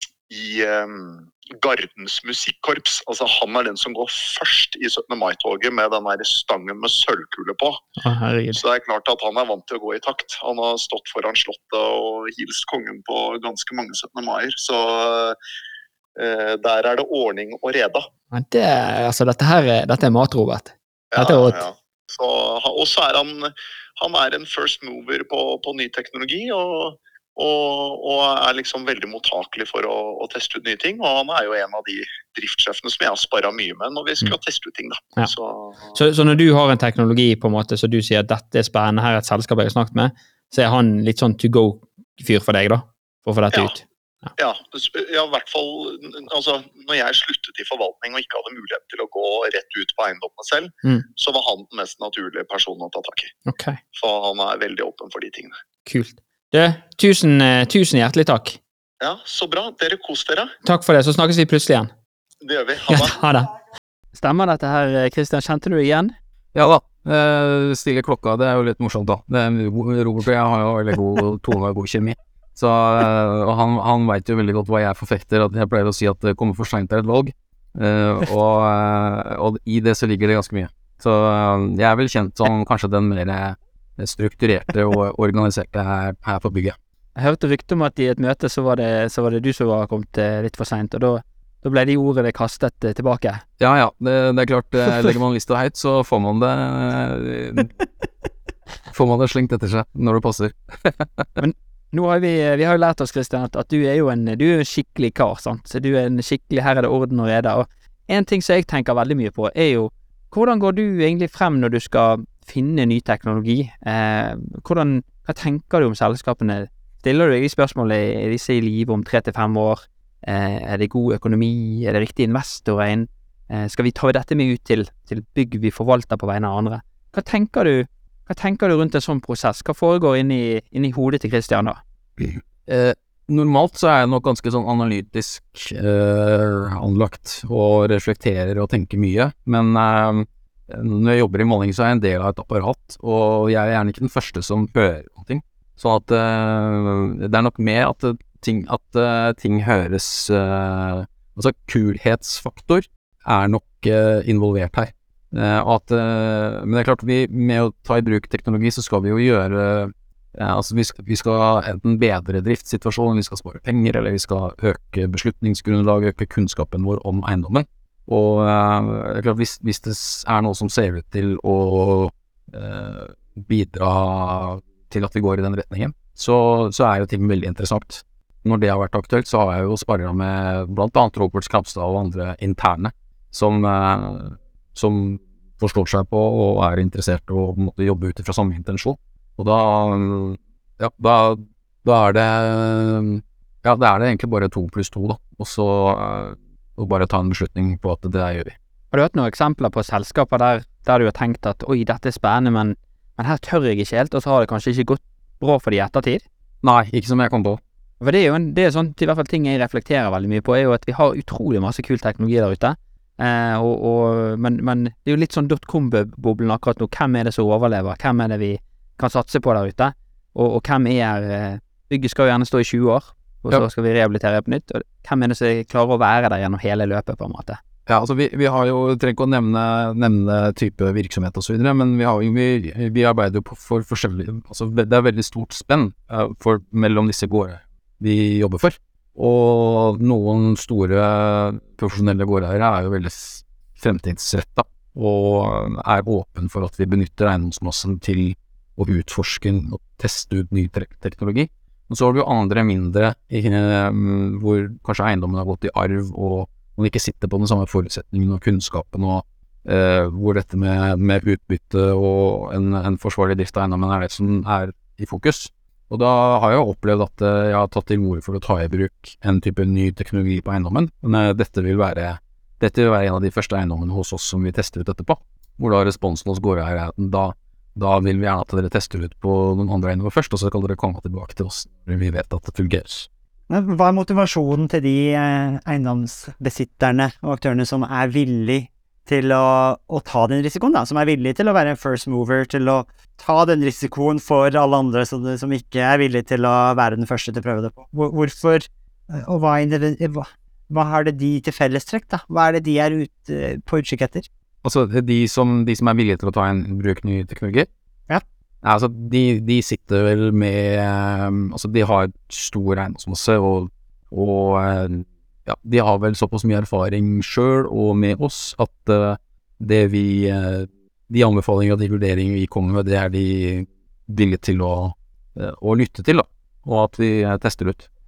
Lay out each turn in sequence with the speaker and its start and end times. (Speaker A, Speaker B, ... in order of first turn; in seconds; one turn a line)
Speaker A: 0.3-7.8
Speaker B: 8.0-8.6
Speaker A: 8.5-15.3
Speaker A: 16.1-18.0
Speaker B: 18.3-21.6
Speaker A: 21.1-35.9
Speaker B: 35.9-44.3
Speaker A: 44.4-53.3
Speaker B: 53.5-53.8
Speaker A: 54.0-55.5
Speaker B: 55.9-58.6
Speaker A: 59.0-60.5
Speaker B: 60.6-61.9
Speaker A: 62.4-63.1
Speaker B: 62.9-63.5
Speaker B: 64.1-66.1
Speaker C: 66.5-86.8
Speaker B: 87.2-93.4
Speaker C: 93.6-97.7
Speaker C: 98.9-101.3
Speaker B: 101.4-131.8
Speaker C: 132.2-198.6
Speaker B: 198.9-206.2
Speaker C: 206.6-207.6
Speaker B: 208.0-227.6
Speaker C: 227.9-283.1
Speaker D: 283.5-304.3
Speaker C: 304.6-307.7
Speaker C: 308.6-327.9